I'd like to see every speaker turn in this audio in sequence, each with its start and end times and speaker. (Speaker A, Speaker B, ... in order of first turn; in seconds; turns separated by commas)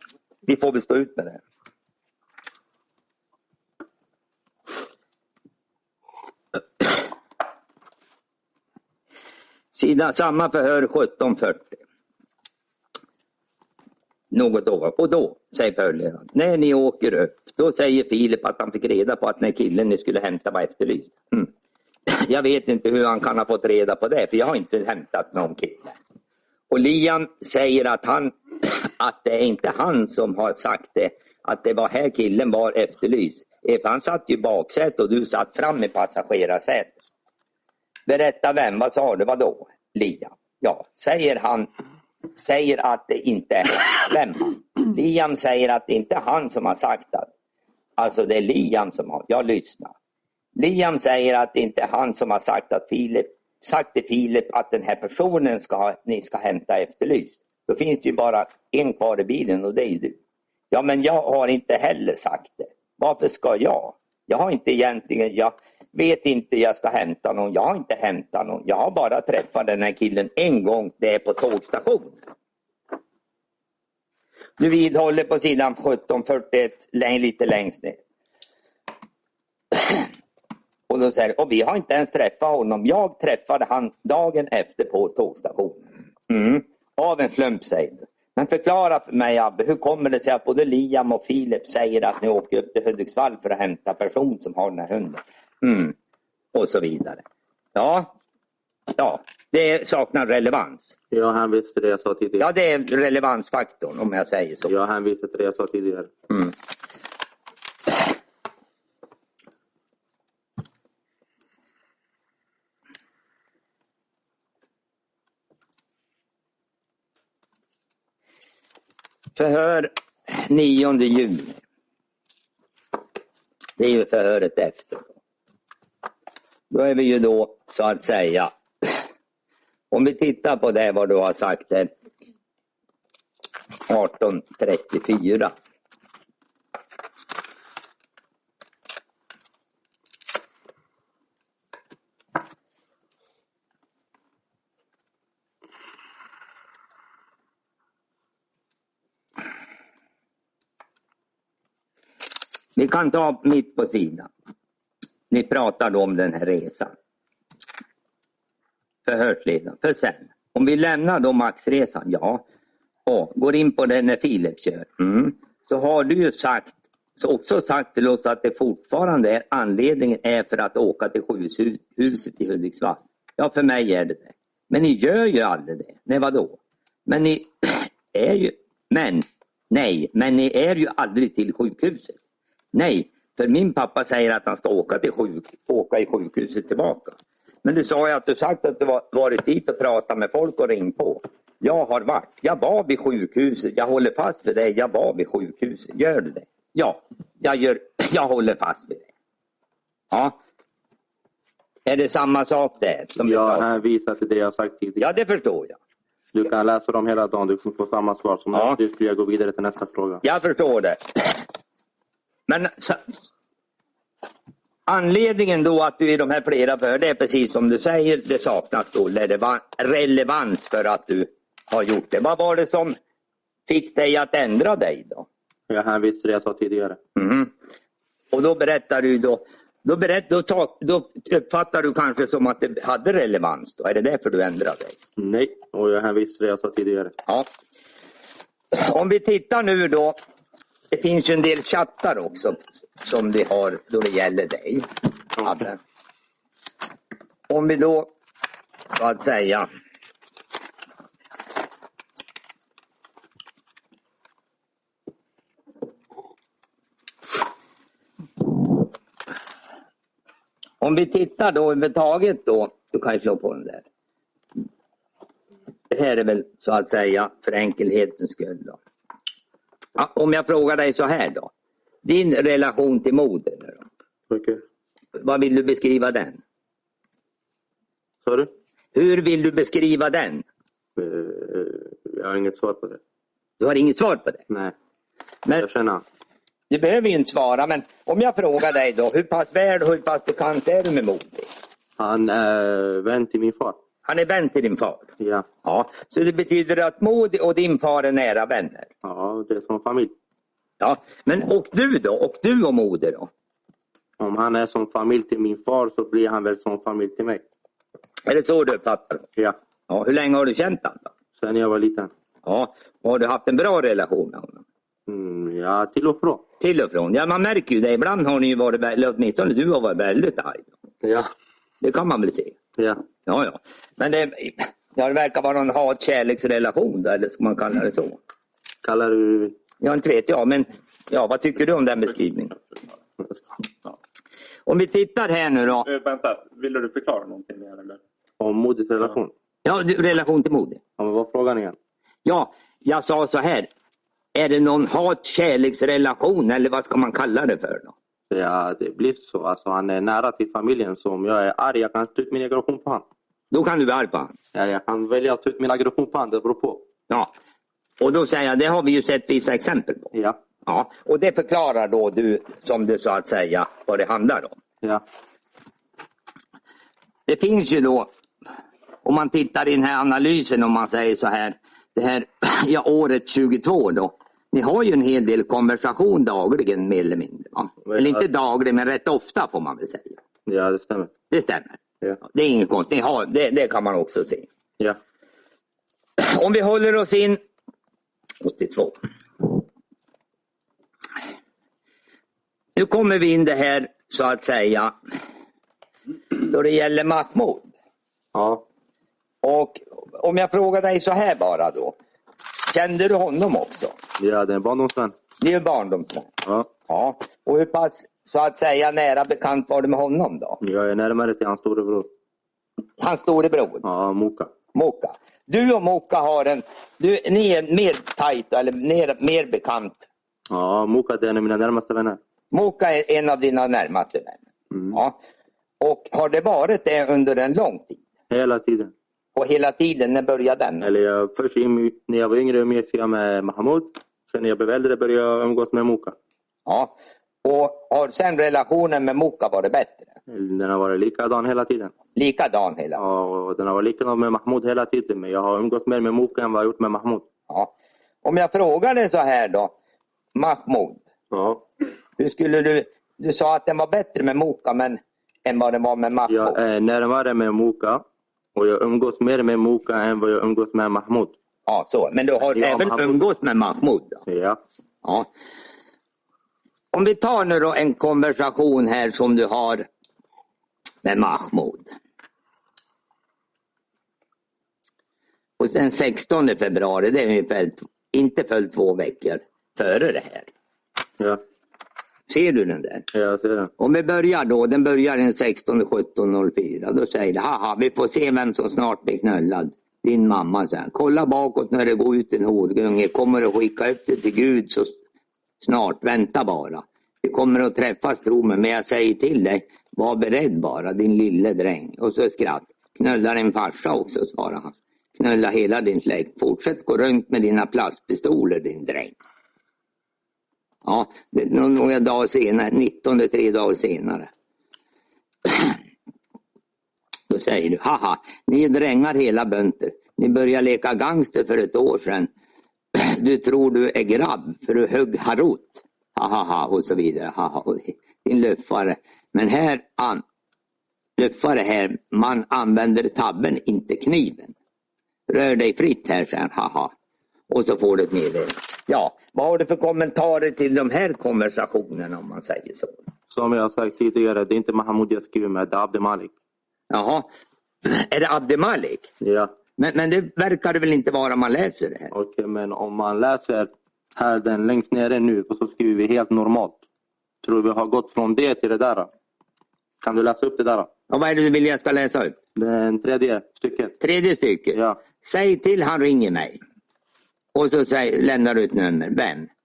Speaker A: 0.5-1.4, Speaker A: 9.7-11.8, Speaker A: 14.3-21.5, Speaker A: 22.1-25.9, Speaker A: 26.7-37.0, Speaker A: 38.1-41.7, Speaker A: 42.4-47.3, Speaker A: 48.0-49.9, Speaker A: 50.5-60.1, Speaker A: 60.7-72.2, Speaker A: 74.6-78.0, Speaker A: 79.7-80.0, Speaker A: 80.9-95.9, Speaker A: 96.5-97.2, Speaker A: 97.7-98.1, Speaker A: 98.9-100.9, Speaker B: 101.1-102.5, Speaker A: 102.4-104.7, Speaker B: 104.7-106.1, Speaker A: 119.3-121.6, Speaker A: 123.8-125.1, Speaker A: 126.7-128.9, Speaker A: 129.9-131.9, Speaker A: 133.9-135.5, Speaker A: 152.8-154.3, Speaker A: 155.3-156.9, Speaker A: 159.1-162.4, Speaker A: 163.1-182.2, Speaker A: 182.7-199.1, Speaker A: 200.1-200.3, Speaker A: 201.8-203.7, Speaker B: 203.2-205.0, Speaker A: 205.0-205.8, Speaker B: 206.3-210.2, Speaker A: 210.2-211.4, Speaker A: 212.5-213.0, Speaker A: 214.9-223.0, Speaker A: 223.7-225.3, Speaker B: 225.7-227.0, Speaker A: 227.2-227.5, Speaker A: 228.3-234.9, Speaker B: 235.2-237.1, Speaker A: 238.7-240.2, Speaker A: 240.9-244.9, Speaker A: 245.4-245.8, Speaker A: 247.5-248.1, Speaker A: 248.9-249.7, Speaker A: 260.8-263.8, Speaker A: 265.9-268.8, Speaker A: 269.9-271.5, Speaker A: 272.0-273.8, Speaker B: 274.3-274.6, Speaker A: 275.2-276.4, Speaker B: 278.2-278.5, Speaker A: 278.9-280.4, Speaker B: 281.0-283.0, Speaker A: 283.6-284.4, Speaker B: 285.6-286.0, Speaker A: 286.7-291.5, Speaker B: 292.0-293.8, Speaker A: 294.0-295.1, Speaker B: 295.2-295.4, Speaker A: 295.6-298.9, Speaker B: 299.0-300.1, Speaker A: 300.8-303.3, Speaker B: 304.2-307.4, Speaker A: 308.2-309.3, Speaker A: 309.9-311.1, Speaker B: 311.4-312.1, Speaker A: 312.4-314.6, Speaker B: 315.1-316.4, Speaker A: 316.6-320.7, Speaker B: 321.0-321.3, Speaker A: 321.8-322.6, Speaker A: 323.2-328.2, Speaker B: 328.8-329.6, Speaker A: 329.8-332.5, Speaker A: 334.7-335.9, Speaker C: 335.9-338.0, Speaker B: 338.4-339.3, Speaker A: 339.6-340.8, Speaker B: 341.0-341.8, Speaker A: 342.2-343.7, Speaker A: 344.3-347.9, Speaker B: 348.3-353.0, Speaker A: 353.5-354.3, Speaker B: 354.5-356.8, Speaker A: 358.0-360.1, Speaker A: 360.6-364.5, Speaker A: 367.3-368.1, Speaker A: 369.0-380.2, Speaker B: 377.8-378.2, Speaker B: 380.4-381.1, Speaker A: 381.3-384.5, Speaker A: 386.2-387.4, Speaker A: 388.4-389.0, Speaker A: 392.8-394.9, Speaker A: 396.4-397.7, Speaker B: 398.3-398.6, Speaker A: 399.4-401.9, Speaker A: 402.7-403.9, Speaker B: 404.2-405.1, Speaker A: 405.4-406.3, Speaker A: 406.9-410.6, Speaker B: 410.6-412.1, Speaker A: 413.0-413.8, Speaker B: 413.8-414.5, Speaker A: 414.7-420.0, Speaker B: 420.5-422.2, Speaker A: 422.5-425.1, Speaker A: 425.8-428.0, Speaker B: 428.3-428.9, Speaker A: 429.4-430.9, Speaker B: 430.8-436.1, Speaker A: 436.6-436.9, Speaker A: 437.4-440.1, Speaker B: 440.3-441.9, Speaker A: 442.1-443.0, Speaker B: 442.9-447.2, Speaker A: 448.2-449.7, Speaker A: 450.3-451.0, Speaker B: 451.3-451.6, Speaker A: 452.2-456.6, Speaker B: 456.3-458.0, Speaker B: 458.5-461.3, Speaker A: 461.7-464.2, Speaker B: 462.5-463.2, Speaker B: 464.3-464.6, Speaker A: 466.9-469.8, Speaker A: 471.0-471.9, Speaker A: 475.6-480.5, Speaker A: 482.3-483.0, Speaker B: 483.1-483.7, Speaker A: 483.8-494.9, Speaker A: 495.6-509.1, Speaker A: 510.8-514.3, Speaker A: 515.5-515.8, Speaker A: 517.3-522.3, Speaker A: 522.9-530.2, Speaker A: 531.2-534.5, Speaker A: 535.3-536.9, Speaker A: 537.5-543.0, Speaker B: 543.3-546.3, Speaker A: 546.9-547.3, Speaker A: 547.8-549.1, Speaker B: 549.2-549.5, Speaker A: 549.8-552.1, Speaker B: 552.1-556.8, Speaker B: 557.4-559.1, Speaker B: 560.0-560.9, Speaker A: 561.1-562.4, Speaker B: 562.5-564.0, Speaker A: 564.0-566.6, Speaker B: 564.7-565.0, Speaker A: 567.5-569.5